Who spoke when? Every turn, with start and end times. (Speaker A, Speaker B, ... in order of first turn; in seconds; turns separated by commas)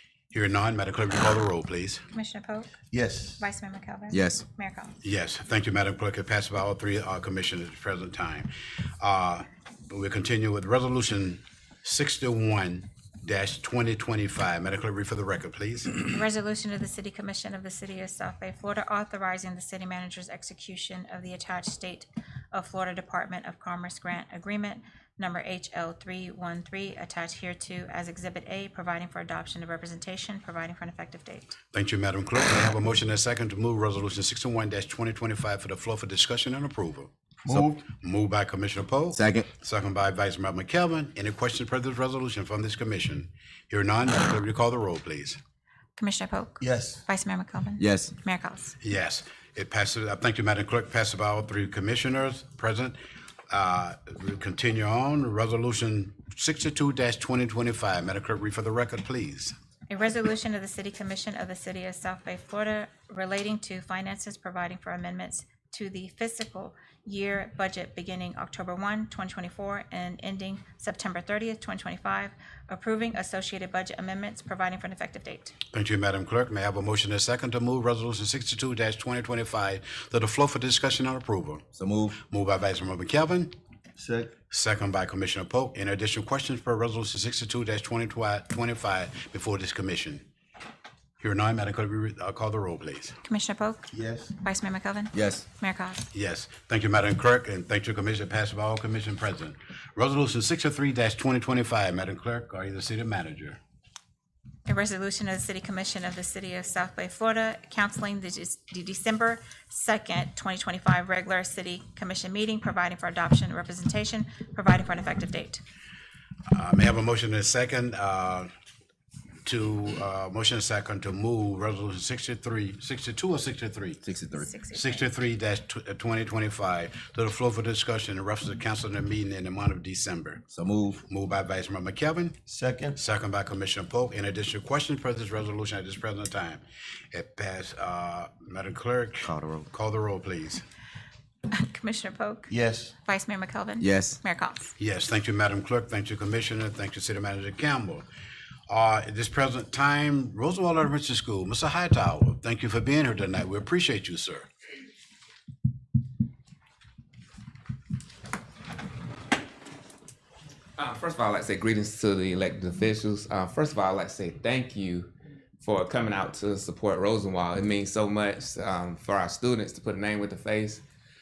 Speaker A: 0.3-2.0, Speaker B: 2.1-2.8, Speaker C: 2.9-3.4, Speaker B: 3.4-4.9, Speaker D: 4.1-4.4, Speaker A: 5.0-15.9, Speaker B: 16.1-31.6, Speaker A: 31.7-45.4, Speaker C: 37.4-37.8, Speaker D: 39.1-39.5, Speaker B: 46.0-48.8, Speaker C: 46.6-47.0, Speaker D: 47.8-48.1, Speaker A: 48.8-53.0, Speaker A: 53.5-59.5, Speaker B: 59.9-75.5, Speaker A: 75.7-81.6, Speaker D: 81.7-82.2, Speaker A: 82.2-83.5, Speaker C: 84.0-84.3, Speaker A: 84.5-90.2, Speaker A: 91.2-93.2, Speaker B: 93.2-96.1, Speaker C: 93.9-94.3, Speaker D: 95.1-95.4, Speaker A: 96.1-103.6, Speaker B: 104.7-115.6, Speaker A: 116.5-118.5, Speaker A: 119.4-124.0, Speaker D: 124.0-124.5, Speaker B: 124.4-125.1, Speaker A: 124.7-130.4, Speaker D: 130.5-131.0, Speaker A: 131.1-132.4, Speaker C: 132.5-133.0, Speaker A: 132.9-140.6, Speaker D: 139.2-139.7, Speaker B: 141.5-142.5, Speaker C: 142.5-142.9, Speaker B: 143.0-144.7, Speaker D: 143.8-144.2, Speaker A: 144.8-148.0, Speaker A: 148.7-154.5, Speaker E: 160.8-165.1, Speaker E: 165.6-170.8